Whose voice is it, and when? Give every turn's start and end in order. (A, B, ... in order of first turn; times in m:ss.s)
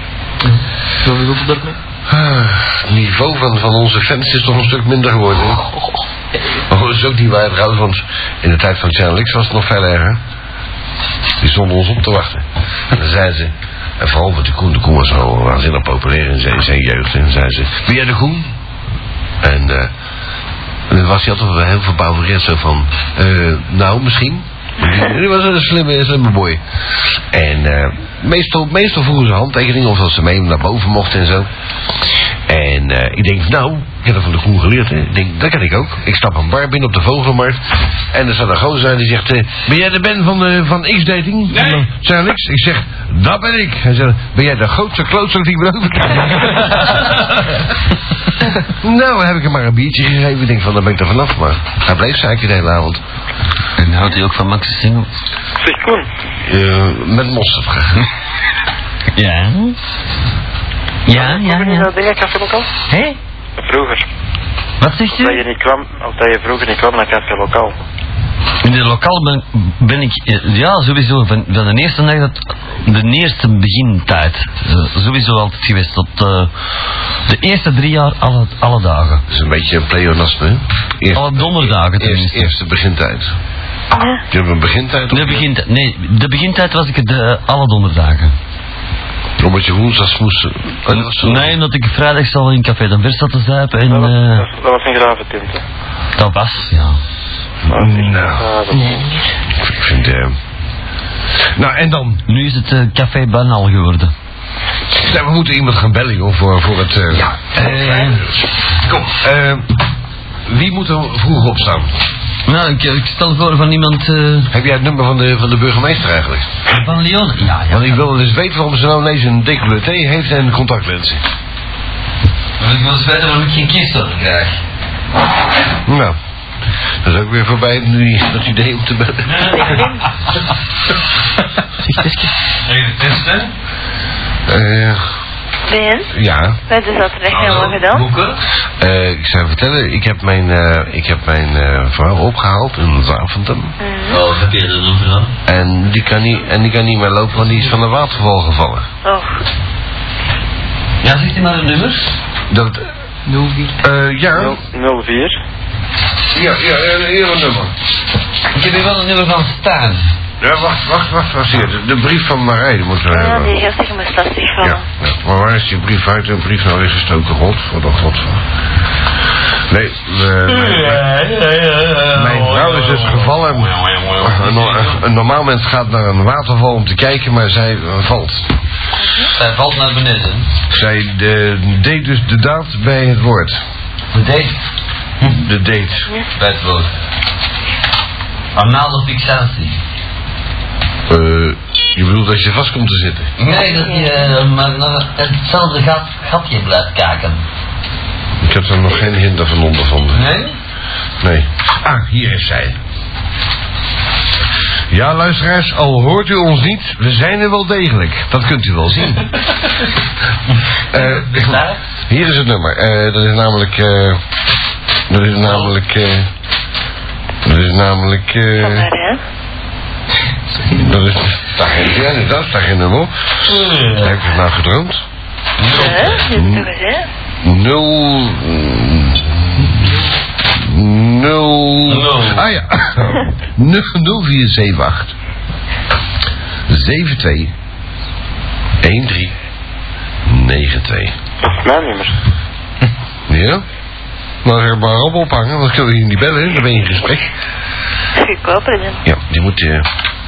0:00.4-0:01.8 A
0:02.1-0:05.6 B
0:06.7-0:10.2 B
0:11.4-0:18.5 B
0:19.4-0:19.9 B
0:20.9-0:31.5 B
0:32.5-0:47.2 B
0:48.7-0:53.0 B
0:53.8-0:55.1 C
0:55.6-0:56.1 D
0:56.4-0:58.0 B
0:59.2-0:59.8 C
1:01.1-1:01.9 C
1:01.1-1:02.7 D
1:02.9-1:03.2 C
1:03.6-1:04.1 D
1:04.8-1:05.4 C
1:05.1-1:07.8 D
1:08.6-1:16.5 C
1:17.3-1:19.2 C
1:19.3-1:23.4 B
1:21.1-1:22.5 C
1:23.9-1:24.2 E
1:24.3-1:25.5 B
1:25.1-1:28.3 C
1:29.4-1:31.6 B
1:30.9-1:34.4 C
1:33.9-1:35.6 D
1:36.2-1:37.0 C
1:37.6-1:38.5 B
1:37.7-1:39.1 D
1:38.7-1:39.2 A
1:39.6-1:40.4 B
1:41.6-1:42.2 B
1:42.3-1:44.1 C
1:44.9-1:49.7 B
1:47.4-1:48.2 C
1:50.5-1:51.9 B
1:52.5-1:54.5 C
1:54.5-1:56.5 B
1:56.7-1:58.0 C
1:57.7-2:01.2 B
2:02.6-2:04.6 C
2:05.9-2:06.2 B
2:07.0-2:09.6 B
2:09.2-2:10.0 C
2:09.6-2:10.1 E
2:11.8-2:12.3 A
2:12.7-2:13.5 C
2:14.5-2:15.0 B
2:15.7-2:16.1 E
2:16.1-2:16.6 B
2:16.7-2:18.1 E
2:17.3-2:18.4 C
2:18.8-2:23.8 B
2:23.8-2:24.2 E
2:24.1-2:25.3 C
2:25.5-2:28.9 B
2:29.0-2:29.4 E
2:31.0-2:32.1 C
2:32.5-2:32.9 B
2:33.3-2:33.8 A
2:33.8-2:34.6 B
2:34.3-2:35.4 D
2:36.3-2:37.7 B
2:38.5-2:40.1 C
2:40.4-2:43.6 B
2:43.1-2:44.8 E
2:44.6-2:48.4 B
2:49.7-2:51.1 B
2:50.5-2:55.0 C
2:52.1-2:58.5 B
2:59.0-2:59.3 E
2:59.3-3:00.5 C
3:00.7-3:03.6 B
3:04.1-3:04.6 C
3:05.2-3:06.1 B
3:06.4-3:06.9 C
3:08.6-3:09.8 C
3:11.1-3:13.3 B
3:13.4-3:17.4 C
3:13.6-3:14.4 E
3:18.4-3:20.3 B
3:20.1-3:20.5 C
3:21.2-3:22.8 B
3:24.9-3:29.3 B
3:30.9-3:34.2 B
3:30.9-3:31.8 C
3:35.1-3:36.3 B
3:35.5-3:35.7 C
3:37.4-3:38.9 B
3:38.6-3:39.2 E
3:40.7-3:43.3 B
3:43.4-3:44.2 C
3:44.0-3:45.0 B
3:45.6-3:46.2 C
3:45.7-3:47.1 E
3:46.3-3:46.7 B
3:47.4-3:49.9 B
3:50.5-3:55.1 B
3:51.9-3:52.5 C
3:56.7-3:57.5 B
3:58.8-3:59.4 B
4:00.3-4:01.2 B
4:01.4-4:02.2 D
4:03.3-4:03.6 B
4:04.4-4:07.3 B
4:08.2-4:09.0 E
4:09.0-4:09.9 B